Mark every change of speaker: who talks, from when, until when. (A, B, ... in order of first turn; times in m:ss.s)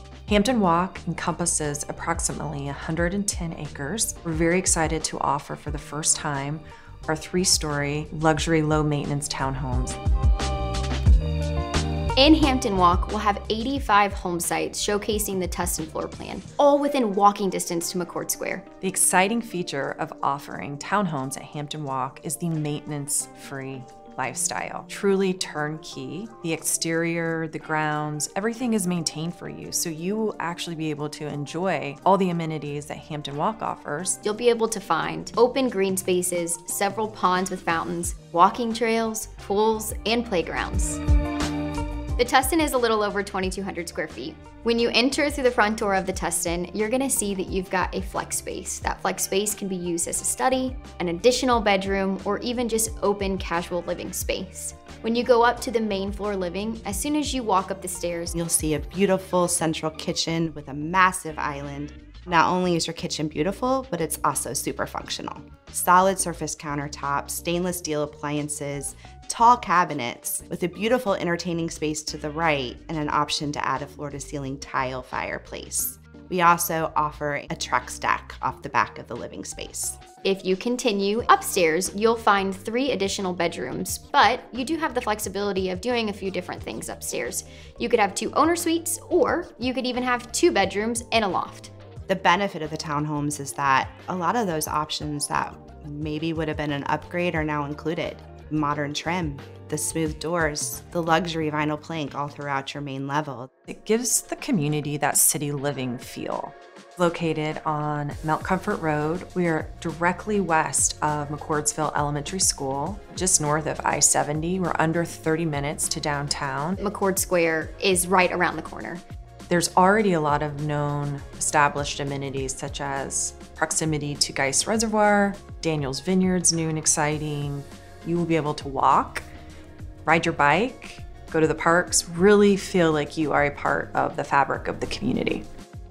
0:00.3-0:10.0 A
0:12.2-0:18.7 B
0:18.8-0:34.2 A
0:34.2-0:41.0 B
0:42.2-0:58.3 B
0:58.3-1:20.0 C
1:20.2-1:31.7 B
1:32.1-1:43.5 C
1:43.7-1:56.8 A
1:56.8-1:59.0 B
1:59.5-2:09.3 A
2:10.0-2:15.4 A